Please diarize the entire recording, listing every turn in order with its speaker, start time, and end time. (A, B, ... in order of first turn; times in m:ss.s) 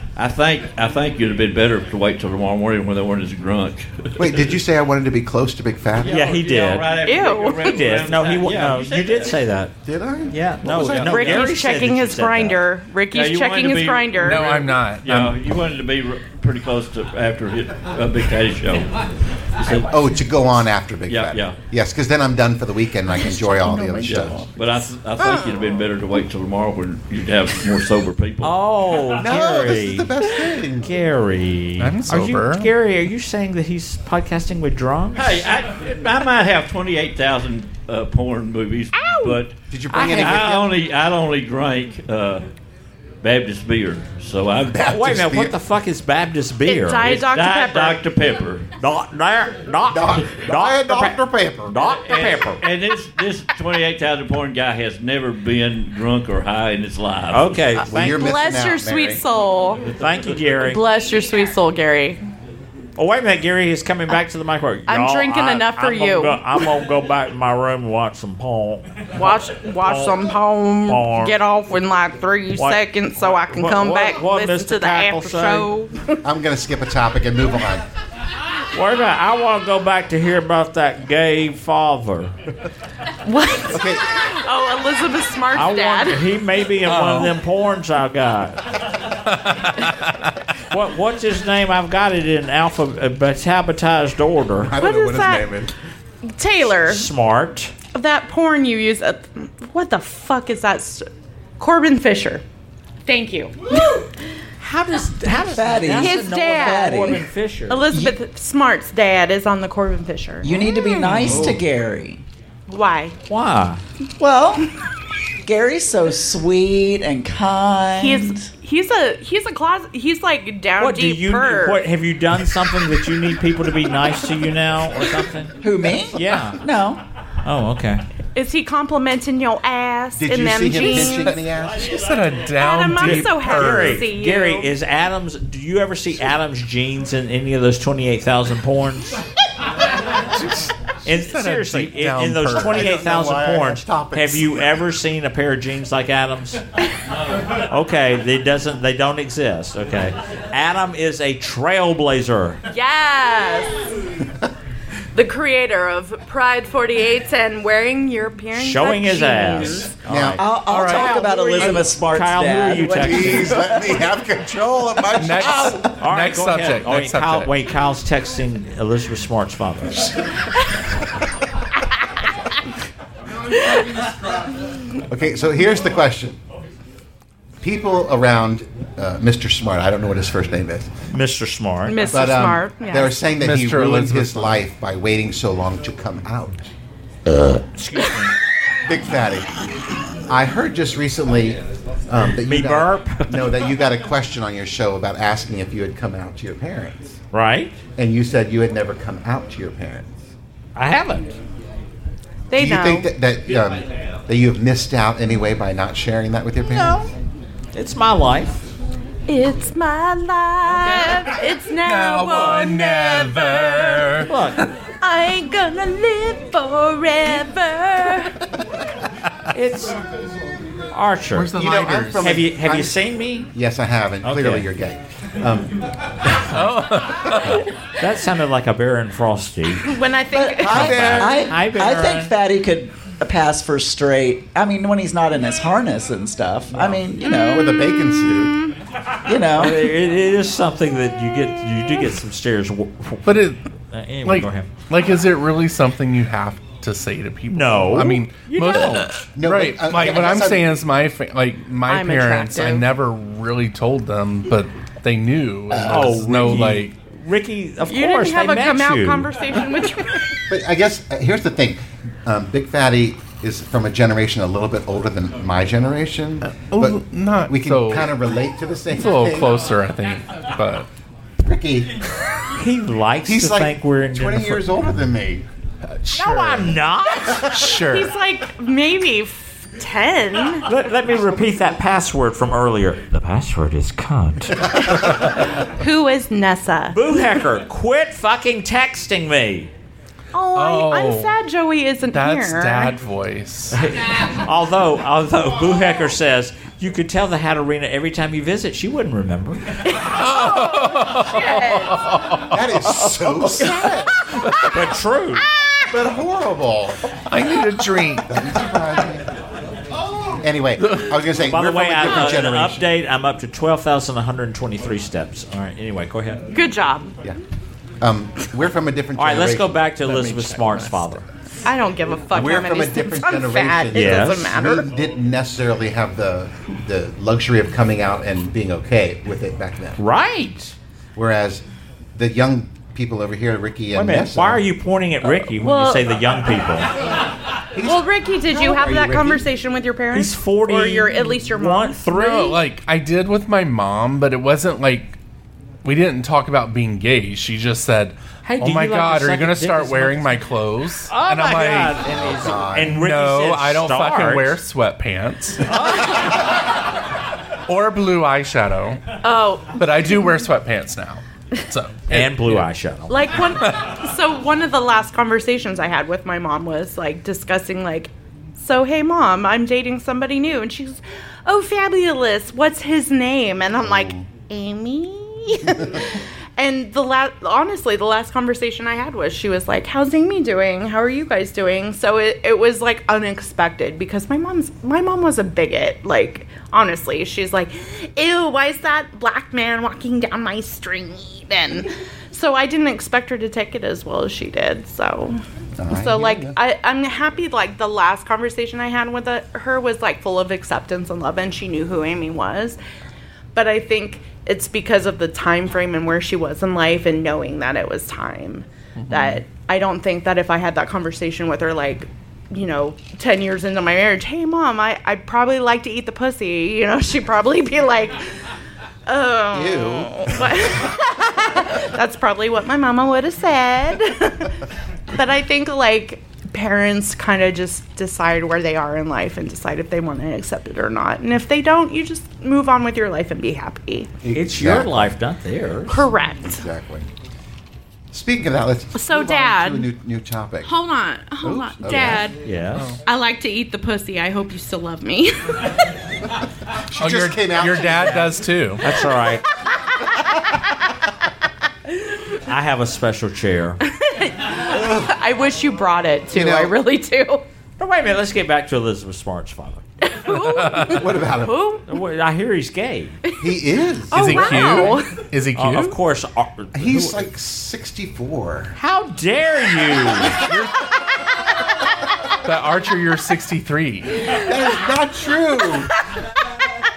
0:00.2-0:04.5 A
0:04.2-0:06.3 B
0:06.0-0:09.4 A
0:06.0-0:06.9 C
0:07.0-0:07.8 D
0:07.6-0:09.7 C
0:09.8-0:11.4 B
0:10.3-0:12.6 C
0:11.0-0:14.5 D
0:13.1-0:18.9 A
0:14.2-0:15.4 E
0:19.6-0:19.9 A
0:19.8-0:24.4 B
0:21.1-0:21.6 A
0:24.0-0:28.6 A
0:28.4-0:30.1 C
0:29.2-0:30.9 B
0:30.8-0:35.4 C
0:31.8-0:32.7 E
0:35.1-0:39.5 A
0:39.0-0:39.4 D
0:39.7-0:40.7 B
0:39.9-0:40.7 C
0:40.1-0:42.4 A
0:43.2-0:44.8 A
0:44.7-0:45.5 B
0:44.9-0:47.2 C
0:46.6-0:48.0 D
0:47.0-0:48.7 A
0:48.8-0:52.6 C
0:49.9-0:51.8 B
0:52.1-0:57.6 A
0:57.3-0:58.3 C
0:57.8-0:59.2 B
0:58.0-0:59.8 D
0:59.8-1:00.8 C
1:00.6-1:02.2 D
1:03.0-1:08.9 C
1:04.9-1:06.6 D
1:09.2-1:16.2 D
1:09.8-1:10.2 C
1:10.9-1:11.4 C
1:12.5-1:15.7 C
1:16.2-1:17.8 B
1:18.7-1:22.3 C
1:23.2-1:26.2 D
1:23.7-1:24.1 B
1:25.5-1:28.7 C
1:26.9-1:27.3 E
1:29.3-1:30.1 E
1:30.7-1:34.8 C
1:34.6-1:35.7 B
1:34.8-1:35.5 D
1:36.2-1:37.1 D
1:36.8-1:37.7 C
1:37.9-1:41.1 D
1:41.6-1:42.4 D
1:43.0-1:44.1 D
1:44.6-1:47.8 C
1:45.3-1:47.2 F
1:46.0-1:51.3 D
1:47.9-1:48.2 F
1:50.4-1:52.2 F
1:51.3-1:51.6 B
1:52.7-1:53.2 D
1:53.3-1:53.8 C
1:54.2-1:54.7 F
1:55.4-1:58.5 F
1:58.0-2:01.8 D
2:00.8-2:05.5 C
2:05.6-2:07.0 F
2:06.1-2:06.6 C
2:07.4-2:08.0 C
2:08.3-2:11.4 D
2:10.2-2:11.9 B
2:11.8-2:14.1 E
2:12.6-2:14.7 D
2:13.0-2:19.2 C
2:21.0-2:26.6 C
2:21.1-2:22.8 E
2:22.5-2:24.7 B
2:27.7-2:32.6 C
2:32.7-2:33.8 D
2:35.1-2:39.9 D
2:38.5-2:43.6 C
2:40.0-2:40.4 B
2:40.4-2:44.0 F
2:40.7-2:41.7 E
2:43.0-2:45.9 B
2:45.2-2:47.5 E
2:46.0-2:50.1 C
2:55.1-2:56.4 B
2:57.6-3:00.9 B
3:01.1-3:02.1 C
3:01.8-3:03.2 D
3:02.1-3:06.7 B
3:03.4-3:04.6 E
3:07.7-3:08.3 C
3:08.8-3:09.5 B
3:10.3-3:17.2 B
3:12.4-3:13.5 C
3:17.3-3:17.7 C
3:18.0-3:20.2 B
3:20.8-3:21.4 C
3:22.5-3:23.1 D
3:22.5-3:27.1 B
3:26.7-3:27.1 C
3:27.7-3:28.6 C
3:29.3-3:34.2 D
3:31.8-3:34.3 E
3:32.3-3:32.6 C
3:34.2-3:34.6 C
3:35.0-3:38.4 D
3:39.5-3:40.0 C
3:40.9-3:43.5 C
3:41.4-3:42.2 E
3:41.5-3:43.0 B
3:43.5-3:45.8 B
3:44.2-3:44.7 C
3:46.5-3:47.6 E
3:48.0-3:49.9 C
3:49.8-3:51.2 D
3:50.4-3:51.4 B
3:50.6-3:57.7 F
3:50.6-3:52.3 C
3:57.2-3:58.6 B
3:57.2-3:58.7 D
3:59.2-3:59.8 F
3:59.6-4:03.3 C
4:03.2-4:03.6 E
4:03.9-4:04.7 C
4:04.2-4:16.9 E
4:07.5-4:09.2 C
4:09.4-4:10.7 B
4:11.8-4:12.9 D
4:15.8-4:19.3 C
4:17.8-4:20.3 D
4:20.5-4:29.6 B
4:26.6-4:28.1 E
4:29.0-4:30.9 E
4:31.4-4:32.0 B
4:32.6-4:34.7 C
4:33.2-4:35.4 B
4:35.9-4:36.8 E
4:36.1-4:37.5 C
4:37.4-4:38.1 E
4:37.9-4:40.7 D
4:40.6-4:44.7 C
4:45.6-4:47.0 D
4:46.9-4:49.7 C
4:50.3-4:53.0 D
4:50.5-4:51.3 E
4:52.1-4:53.8 E
4:53.7-4:59.8 C
4:59.9-5:02.1 D
5:00.2-5:03.0 E
5:02.5-5:04.1 B
5:03.6-5:04.0 D
5:04.6-5:05.5 C
5:05.9-5:07.0 B
5:07.3-5:08.3 E
5:08.2-5:09.3 B
5:10.4-5:12.8 B
5:10.8-5:11.1 E
5:11.4-5:16.5 C
5:16.5-5:17.1 D
5:18.0-5:19.8 B
5:19.2-5:21.2 C
5:20.0-5:21.1 E
5:21.6-5:24.9 D
5:22.3-5:30.0 B
5:23.9-5:24.5 C
5:30.0-5:30.7 C
5:31.2-5:31.6 B
5:32.1-5:34.6 B
5:33.9-5:36.9 C
5:35.6-5:36.1 D
5:37.7-5:39.4 B
5:37.8-5:42.1 D
5:40.1-5:42.6 C
5:42.1-5:45.2 E
5:45.8-5:52.0 E
5:48.4-5:50.4 C
5:51.1-5:54.6 C
5:52.1-5:53.0 B
5:52.7-5:55.7 E
5:55.7-5:56.3 C
5:57.7-5:59.0 E
5:59.2-6:00.2 D
5:59.8-6:02.6 E
6:02.1-6:03.2 C
6:03.1-6:42.8 D
6:13.8-6:14.2 B
6:35.8-6:36.6 B
6:43.5-6:58.2 D
6:49.0-6:49.4 E
6:59.1-7:04.5 D
6:59.5-7:00.5 B
7:05.1-7:14.1 D
7:14.2-7:15.1 B
7:14.3-7:16.1 C
7:15.9-7:16.6 D
7:16.4-7:17.0 B
7:18.1-7:20.7 B
7:18.9-7:19.9 D
7:20.6-7:22.4 D
7:21.4-7:22.3 B
7:21.9-7:22.9 C
7:23.0-7:25.7 D
7:26.9-7:28.3 B
7:27.0-7:28.8 E
7:28.8-7:29.4 C
7:32.4-7:33.8 C
7:33.9-7:37.4 D
7:34.8-7:35.1 B
7:36.3-7:36.7 B
7:37.8-7:39.8 C
7:40.0-7:41.8 D
7:40.4-7:40.9 E
7:40.8-7:41.7 B
7:41.9-7:43.2 C
7:43.4-7:44.6 B
7:44.1-7:45.2 D
7:44.1-7:46.0 E
7:45.5-7:47.3 C
7:46.7-7:48.8 B
7:48.8-7:50.4 C
7:52.4-7:54.3 E
7:54.3-7:55.9 B